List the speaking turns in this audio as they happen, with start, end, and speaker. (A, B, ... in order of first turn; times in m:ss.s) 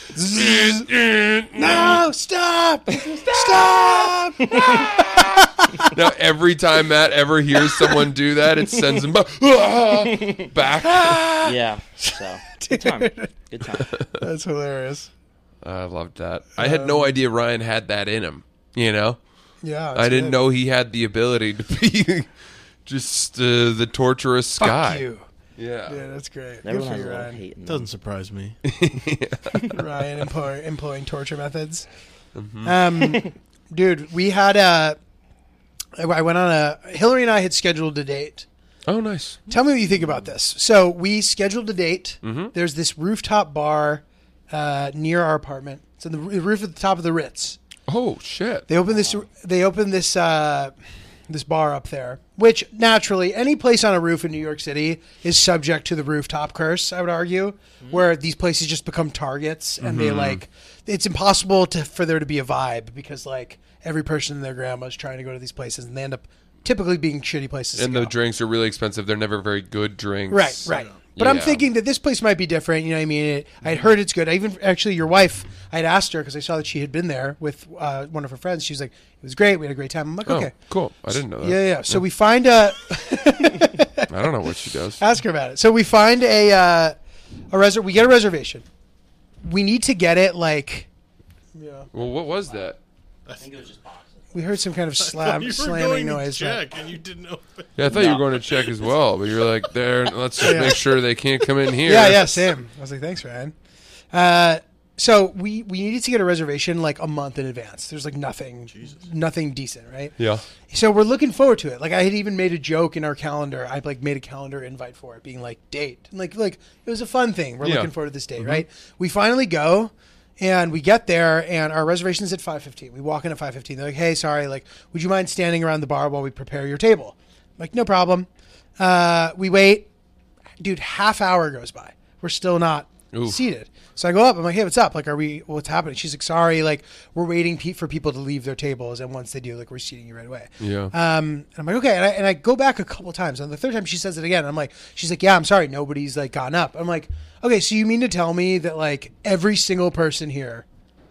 0:00.1-0:00.9 A
0:00.3-0:02.0 B
0:01.5-0:06.0 A
0:04.4-0:04.9 C
0:04.7-0:05.2 B
0:05.8-0:11.4 B
0:10.0-0:10.5 C
0:10.8-0:11.5 A
0:11.4-0:14.0 C
0:12.0-0:13.3 A
0:14.1-0:15.1 A
0:15.6-0:19.2 B
0:16.6-0:17.1 A
0:19.6-0:20.4 A
0:19.9-0:22.3 B
0:22.8-0:25.0 B
0:24.6-0:25.2 A
0:25.6-0:26.0 B
0:25.9-0:27.4 A
0:26.6-0:27.9 C
0:27.6-0:28.6 D
0:28.6-0:29.8 B
0:29.6-0:31.9 A
0:32.3-0:32.7 B
0:32.6-0:35.0 A
0:36.0-0:38.5 A
0:38.9-0:39.4 B
0:39.5-0:47.6 A
0:42.2-0:42.5 B
0:47.9-0:48.7 B
0:48.7-0:50.7 A
0:51.3-1:08.1 A
0:59.8-1:00.4 B
1:07.8-1:11.6 B
1:10.3-1:20.5 A
1:10.7-1:11.0 D
1:20.2-1:22.0 B
1:21.4-1:24.1 A
1:24.1-1:25.0 B
1:25.0-1:26.9 A
1:27.5-1:28.6 A
1:29.4-1:30.9 A
1:31.6-1:31.9 A
1:31.9-1:32.8 B
1:33.3-1:33.5 D
1:33.4-1:34.0 C
1:34.3-1:36.6 A
1:35.0-1:38.9 D
1:37.8-1:42.5 B
1:37.9-1:38.2 C
1:40.4-1:40.8 A
1:40.4-1:40.7 D
1:41.8-1:43.5 A
1:44.1-1:50.1 A
1:48.7-1:49.0 D
1:50.2-1:50.4 B
1:50.7-2:08.3 A
1:57.6-1:58.6 B
2:08.8-2:09.9 A
2:10.6-2:30.6 A
2:13.1-2:13.4 B
2:20.6-2:20.9 B